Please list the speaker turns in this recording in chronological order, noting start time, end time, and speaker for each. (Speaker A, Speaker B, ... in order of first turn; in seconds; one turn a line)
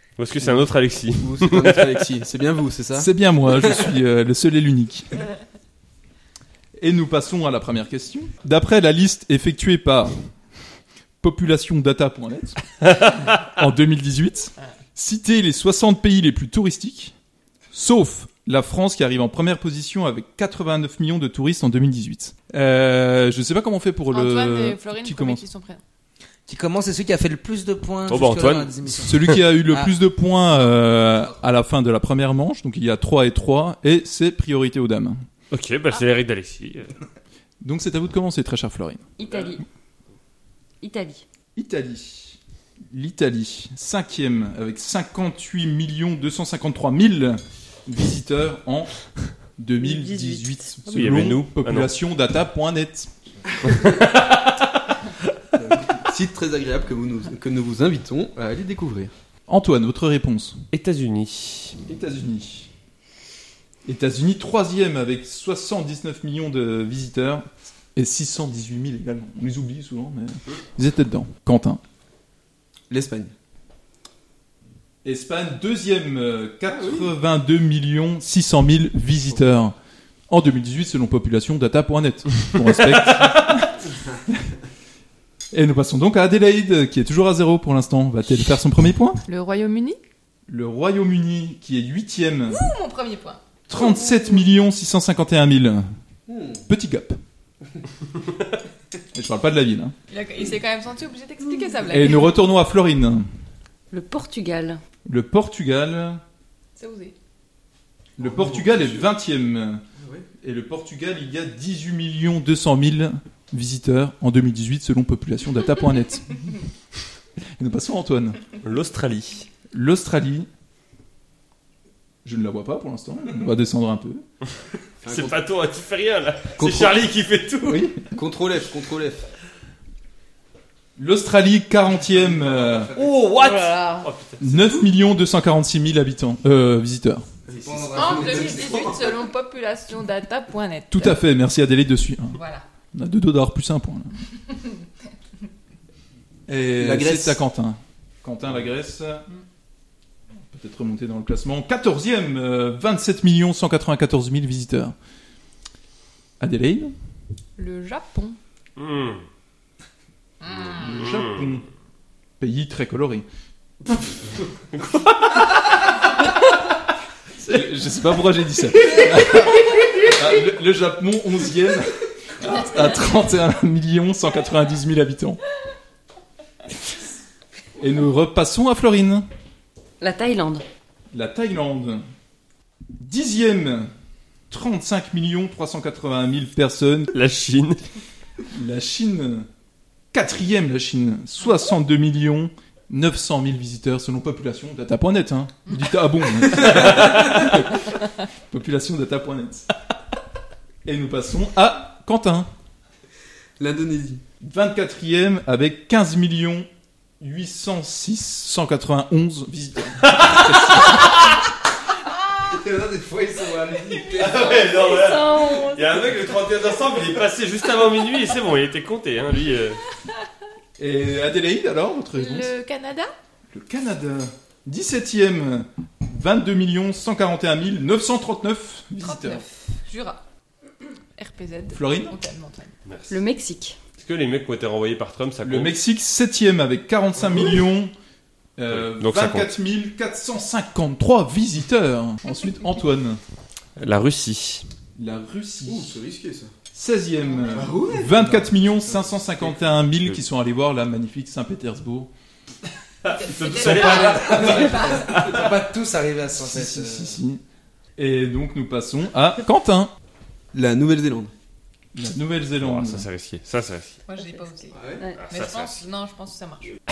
Speaker A: 0.2-1.9
Speaker B: 0.4-3.9
Speaker C: 3.0-5.2
Speaker C: 6.8-10.2
Speaker C: 11.2-17.1
Speaker A: 12.8-13.3
Speaker C: 17.7-25.4
Speaker D: 24.1-25.8
Speaker E: 26.5-29.9
Speaker A: 28.1-29.4
Speaker C: 28.9-35.2
Speaker A: 35.5-36.9
Speaker C: 37.6-39.1
Speaker F: 39.2-39.6
Speaker F: 40.8-41.2
Speaker C: 41.5-42.4
Speaker C: 42.9-53.1
Speaker F: 49.8-50.7
Speaker A: 50.9-51.9
Speaker A: 53.6-54.7
Speaker B: 55.7-59.1
Speaker C: 59.5-60.6
Speaker A: 60.7-61.8
Speaker C: 61.9-62.7
Speaker C: 63.9-71.8
Speaker B: 72.9-73.3
Speaker C: 75.0-79.7
Speaker B: 76.7-77.1
Speaker C: 80.3-84.5
Speaker C: 85.5-89.2
Speaker D: 89.3-90.0
Speaker C: 90.5-92.6
Speaker D: 92.5-93.4
Speaker C: 93.7-95.9
Speaker B: 96.3-96.6
Speaker C: 96.7-97.2
Speaker C: 99.1-99.9
Speaker D: 100.1-102.3
Speaker C: 101.9-103.2
Speaker F: 103.9-104.8
Speaker C: 105.0-106.2
Speaker D: 106.8-107.1
Speaker B: 108.2-109.1
Speaker C: 108.2-109.8
Speaker B: 110.0-110.2
Speaker C: 110.4-116.5
Speaker C: 117.6-118.4
Speaker A: 118.6-119.5
Speaker C: 119.7-120.5
Speaker C: 122.2-124.2
Speaker B: 125.0-125.4
Speaker A: 125.0-127.9
Speaker B: 126.6-127.0
Speaker C: 127.7-128.0
Speaker B: 128.0-129.2
Speaker C: 131.0-132.9
Speaker E: 132.0-133.2
Speaker A: 132.9-134.8
Speaker C: 134.4-137.3
Speaker B: 137.5-139.0
Speaker E: 137.5-139.0
Speaker D: 137.9-141.2
Speaker C: 140.9-142.4
Speaker D: 142.3-142.6
Speaker C: 142.9-144.1
Speaker C: 146.5-149.2
Speaker B: 146.8-147.4
Speaker C: 150.5-154.9
Speaker C: 156.4-156.9
Speaker D: 157.6-158.4
Speaker A: 158.8-159.2
Speaker D: 160.4-160.8
Speaker C: 160.6-161.6
Speaker A: 160.9-161.5
Speaker C: 162.4-163.2
Speaker A: 164.7-165.4
Speaker C: 167.4-175.4
Speaker C: 177.8-179.2
Speaker F: 180.0-180.6
Speaker C: 181.1-182.0
Speaker C: 183.0-183.9
Speaker C: 184.5-187.1
Speaker A: 187.1-187.8
Speaker C: 188.5-189.5
Speaker C: 190.1-198.0
Speaker A: 196.7-197.2
Speaker C: 198.5-199.7
Speaker C: 200.8-202.5
Speaker B: 203.6-204.2
Speaker C: 204.4-206.7
Speaker C: 207.2-211.1
Speaker A: 210.0-211.1
Speaker E: 212.4-214.7
Speaker A: 214.2-219.8
Speaker F: 214.9-215.9
Speaker C: 220.8-222.5
Speaker D: 222.1-223.1
Speaker C: 223.5-229.4
Speaker D: 229.0-230.2
Speaker D: 231.2-232.7
Speaker C: 231.7-232.2
Speaker A: 232.8-233.2
Speaker F: 233.1-233.8
Speaker A: 234.0-235.7
Speaker C: 235.4-237.9
Speaker C: 238.6-243.2
Speaker A: 238.7-239.5
Speaker A: 243.8-244.7
Speaker C: 245.0-246.0
Speaker B: 245.7-246.5
Speaker C: 246.7-252.1
Speaker B: 247.5-249.8
Speaker A: 253.0-255.4
Speaker D: 253.1-255.2
Speaker E: 253.5-257.2
Speaker C: 256.3-257.4
Speaker C: 258.0-259.9
Speaker B: 260.5-261.3
Speaker C: 261.9-263.0
Speaker A: 262.6-264.0
Speaker D: 264.1-266.8
Speaker A: 265.1-265.8